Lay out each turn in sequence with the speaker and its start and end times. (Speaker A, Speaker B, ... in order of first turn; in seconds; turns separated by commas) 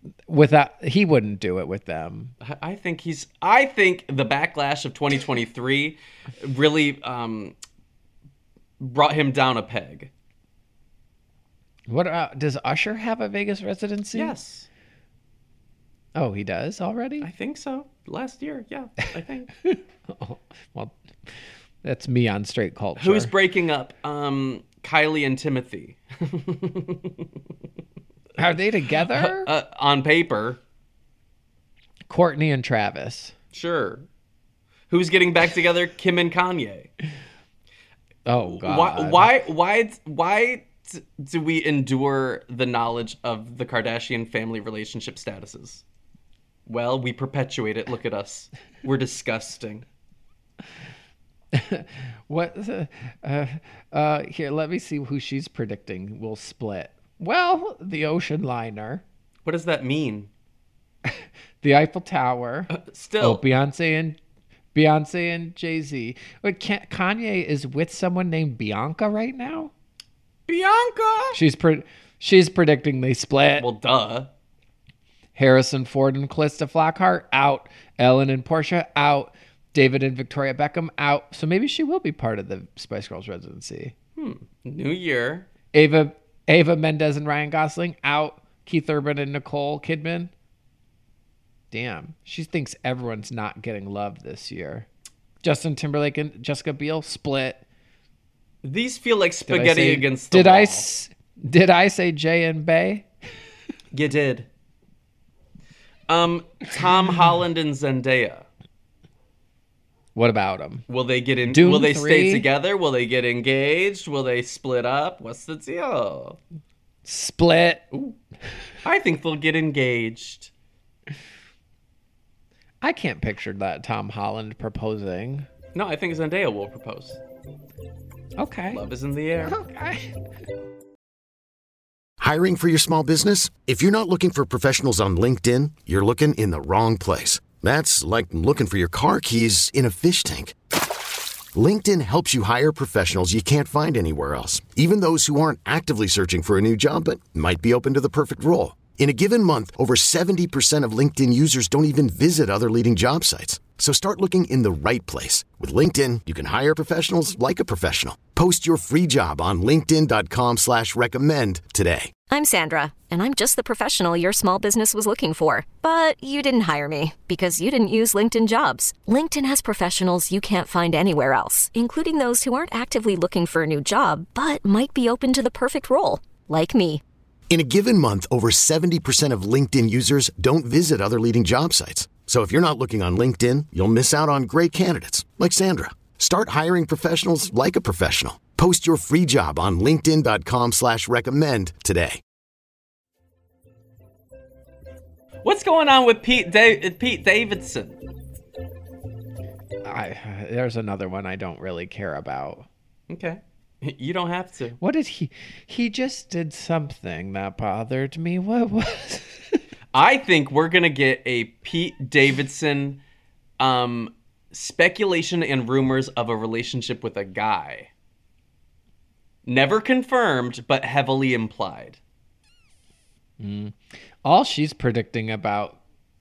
Speaker A: 0.3-2.3, Speaker B: 2.4-7.5, Speaker B: 8.8-10.1, Speaker A: 11.9-14.3, Speaker B: 14.1-14.7, Speaker A: 16.1-17.3, Speaker B: 17.2-19.5, Speaker A: 19.6-21.0, Speaker A: 21.8-23.3, Speaker B: 23.0-27.3, Speaker A: 28.4-29.5, Speaker B: 29.1-30.6, Speaker A: 32.1-33.3, Speaker B: 33.5-34.1, Speaker B: 34.9-36.9, Speaker A: 38.2-39.3, Speaker B: 38.6-45.8, Speaker B: 46.7-49.8, Speaker A: 51.5-59.0, Speaker B: 59.4-60.3, Speaker A: 61.0-64.2, Speaker B: 62.7-63.4, Speaker A: 64.7-69.7, Speaker B: 70.5-71.4, Speaker A: 71.3-73.7, Speaker B: 73.6-74.3, Speaker A: 75.3-83.9, Speaker B: 84.2-85.5, Speaker A: 85.7-90.3, Speaker A: 91.7-94.9, Speaker A: 95.4-97.6, Speaker B: 98.6-100.9, Speaker A: 99.5-103.1, Speaker B: 103.9-104.5, Speaker B: 106.1-108.5, Speaker A: 110.1-110.8, Speaker B: 110.9-116.4, Speaker A: 111.5-112.5, Speaker A: 117.0-117.9, Speaker B: 117.9-118.2, Speaker B: 118.8-120.5, Speaker A: 122.8-125.5, Speaker B: 125.7-127.2, Speaker A: 128.4-128.8, Speaker B: 128.7-129.6, Speaker A: 129.4-130.1, Speaker C: 132.2-140.6, Speaker C: 141.5-162.1, Speaker D: 162.3-177.0, Speaker C: 177.5-192.2, Speaker B: 195.4-198.0, Speaker A: 199.8-202.7, Speaker B: 203.1-204.8, Speaker A: 204.8-209.6, Speaker B: 209.9-213.0, Speaker B: 213.6-217.9, Speaker B: 219.4-222.0, Speaker A: 223.4-225.8